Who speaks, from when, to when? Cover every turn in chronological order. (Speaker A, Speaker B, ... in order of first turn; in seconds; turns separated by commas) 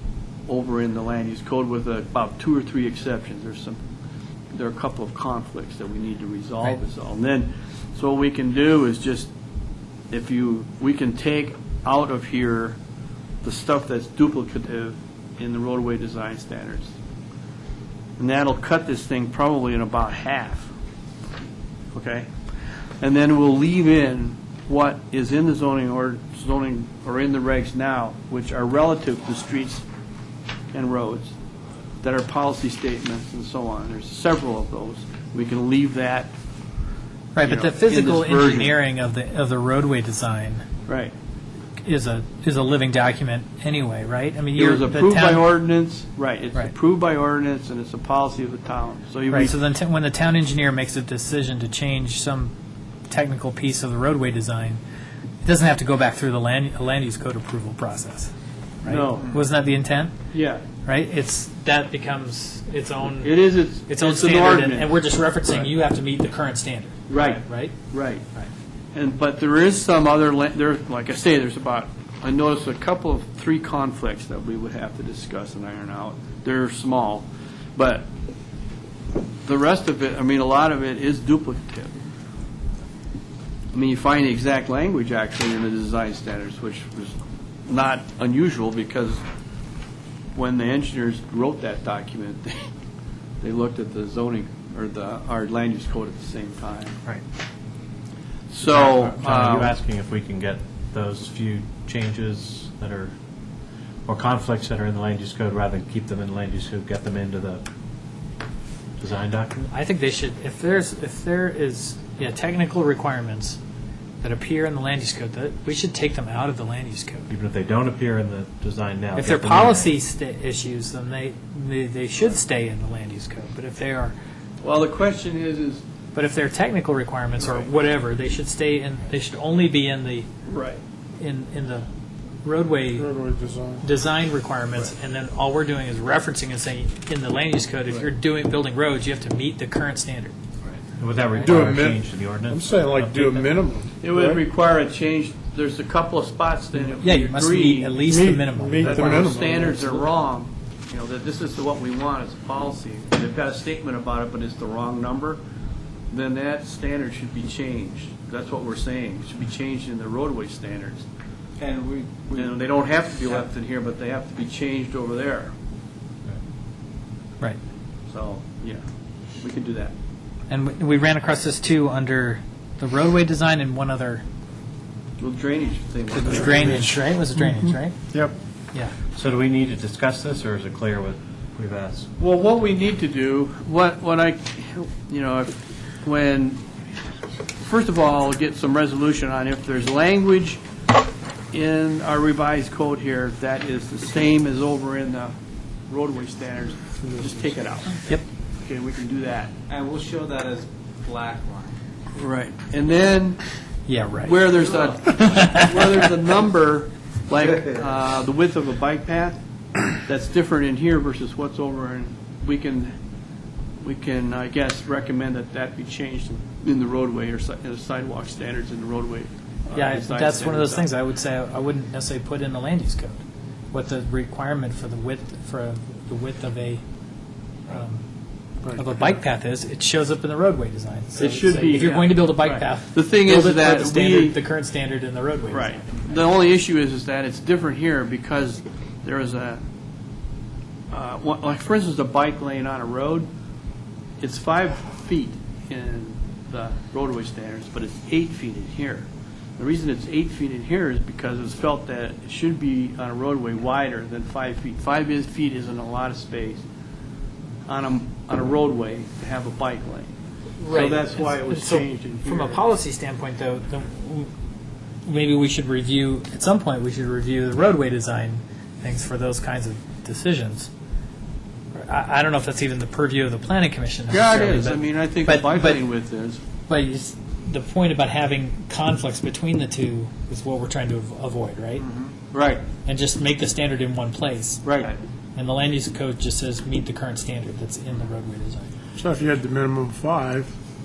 Speaker A: 0.5-3.8, Speaker A: 4.5-9.3, Speaker A: 10.1-12.8, Speaker A: 13.4-16.9, Speaker A: 18.2-20.7, Speaker A: 21.9-22.3, Speaker A: 23.0-29.9, Speaker A: 30.7-31.4, Speaker A: 32.0-36.3, Speaker B: 37.3-40.6, Speaker A: 37.4-38.7, Speaker A: 40.9-41.1, Speaker B: 41.8-45.5, Speaker A: 44.5-49.5, Speaker B: 49.3-52.5, Speaker B: 53.1-54.8, Speaker B: 55.4-58.3, Speaker B: 58.8-60.3, Speaker A: 58.8-59.4, Speaker A: 60.3-60.6, Speaker B: 60.8-67.7, Speaker A: 63.2-64.9, Speaker A: 67.1-68.2, Speaker A: 68.9-78.1, Speaker A: 79.4-81.9, Speaker A: 83.7-89.2, Speaker A: 90.3-92.7, Speaker A: 93.4-97.0, Speaker A: 98.5-99.7, Speaker C: 98.6-103.1, Speaker C: 104.0-107.6, Speaker C: 109.0-109.7, Speaker B: 109.7-113.6, Speaker B: 114.2-117.3, Speaker C: 117.3-119.9, Speaker B: 119.2-124.1, Speaker A: 124.6-125.8, Speaker B: 126.1-130.3, Speaker A: 127.4-127.7, Speaker A: 130.5-130.8, Speaker B: 131.2-131.9, Speaker B: 132.4-133.1, Speaker D: 132.9-133.9, Speaker B: 133.8-140.3, Speaker C: 140.9-143.5, Speaker D: 141.4-144.4, Speaker A: 144.0-148.0, Speaker B: 147.0-149.2, Speaker D: 148.1-150.0, Speaker A: 148.8-155.4, Speaker A: 156.1-161.1, Speaker E: 161.6-162.5, Speaker A: 162.3-165.5, Speaker A: 168.1-168.8, Speaker A: 169.4-169.9, Speaker B: 170.5-174.2, Speaker A: 175.2-177.0, Speaker B: 176.1-178.0, Speaker D: 177.4-178.3, Speaker C: 179.1-182.1, Speaker A: 182.2-186.6, Speaker A: 187.6-190.6, Speaker A: 191.5-195.3, Speaker A: 195.9-198.1, Speaker A: 198.6-199.5, Speaker E: 199.7-201.7, Speaker A: 202.1-203.5, Speaker B: 203.8-206.1, Speaker A: 204.2-212.9, Speaker E: 204.7-205.0, Speaker A: 213.8-220.9, Speaker B: 219.7-223.2, Speaker B: 223.7-226.8, Speaker B: 227.7-228.1, Speaker D: 228.6-229.2, Speaker B: 228.7-236.1, Speaker A: 231.2-234.3, Speaker A: 235.5-239.6, Speaker A: 240.9-243.3, Speaker A: 244.2-256.6, Speaker A: 257.7-260.1, Speaker B: 260.6-264.3, Speaker A: 260.7-262.6, Speaker B: 265.0-270.7, Speaker B: 271.7-275.8, Speaker A: 274.1-276.4, Speaker B: 276.7-281.9, Speaker E: 281.8-282.1, Speaker A: 282.3-282.6, Speaker B: 282.8-288.7, Speaker A: 284.6-284.9, Speaker D: 288.9-290.5